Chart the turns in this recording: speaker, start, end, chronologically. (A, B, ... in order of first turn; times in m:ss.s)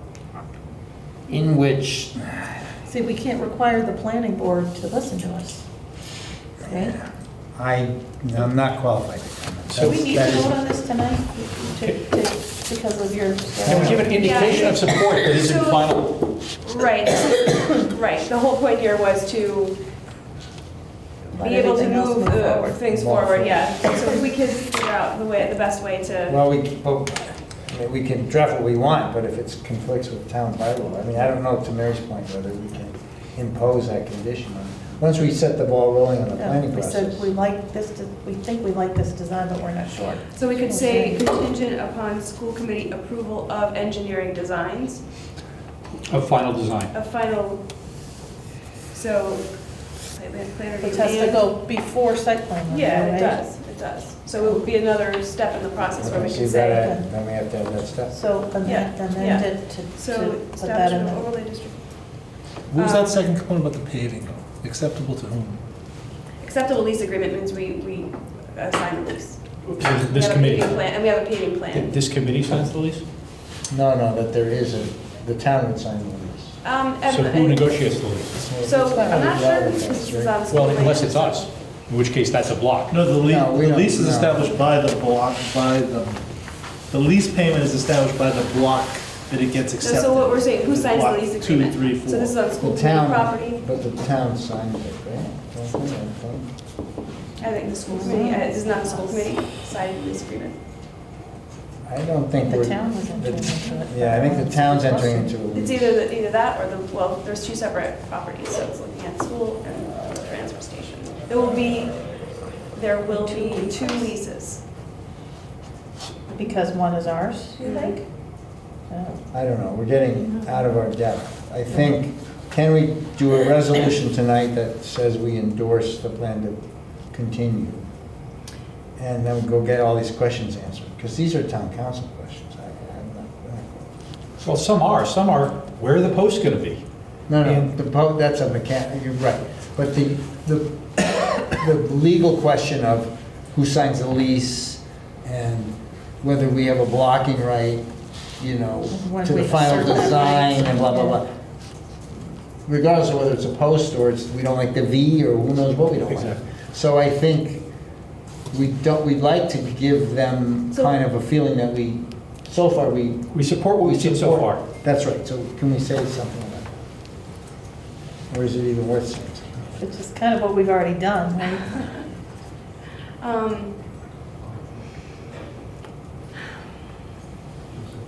0:01.3-0:02.5 A
0:02.9-0:05.7 B
0:06.6-0:07.0 B
0:07.6-0:10.6 A
0:09.7-0:10.0 C
0:09.8-0:14.1 B
0:13.6-0:14.1 A
0:13.6-0:16.2 C
0:14.0-0:16.0 D
0:16.6-0:19.8 D
0:21.4-0:26.4 D
0:21.4-0:22.8 B
0:22.9-0:23.7 A
0:26.3-0:37.3 A
0:36.4-0:41.3 B
0:40.3-0:45.0 D
0:46.1-0:46.9 C
0:46.9-0:47.6 D
0:48.9-0:49.5 D
0:50.1-0:51.5 D
0:50.8-0:53.4 B
0:52.7-0:56.9 D
0:56.0-0:58.1 A
0:56.1-0:57.1 B
0:58.1-1:01.3 B
0:58.6-1:01.8 D
1:02.7-1:05.6 E
1:02.7-1:03.2 D
1:06.4-1:09.4 D
1:09.7-1:10.7 C
1:10.0-1:11.9 D
1:11.7-1:13.0 C
1:13.7-1:16.6 A
1:16.6-1:17.8 D
1:17.1-1:18.3 C
1:18.3-1:20.4 A
1:18.6-1:21.5 D
1:20.5-1:23.0 C
1:22.9-1:26.2 E
1:23.2-1:24.6 A
1:26.9-1:32.4 E
1:29.8-1:33.6 D
1:32.6-1:36.5 A
1:37.4-1:40.6 D
1:37.9-1:39.3 B
1:41.9-1:46.0 A
1:42.4-1:45.4 B
1:45.5-1:52.0 D
1:52.8-1:54.6 D
1:53.1-1:54.1 B
1:56.3-1:58.0 B
1:57.6-1:58.0 D
1:58.9-1:59.2 B
1:59.3-2:06.6 A
2:07.1-2:07.8 A
2:09.0-2:13.9 A
2:14.4-2:16.8 C
2:17.3-2:27.8 A
2:28.4-2:31.3 A
2:28.9-2:31.2 B
2:32.7-2:37.6 A
2:36.1-2:36.4 C
2:38.5-2:46.7 A
2:43.3-2:44.6 C
2:48.3-2:49.7 A
2:49.8-2:52.0 B
2:53.2-2:53.7 D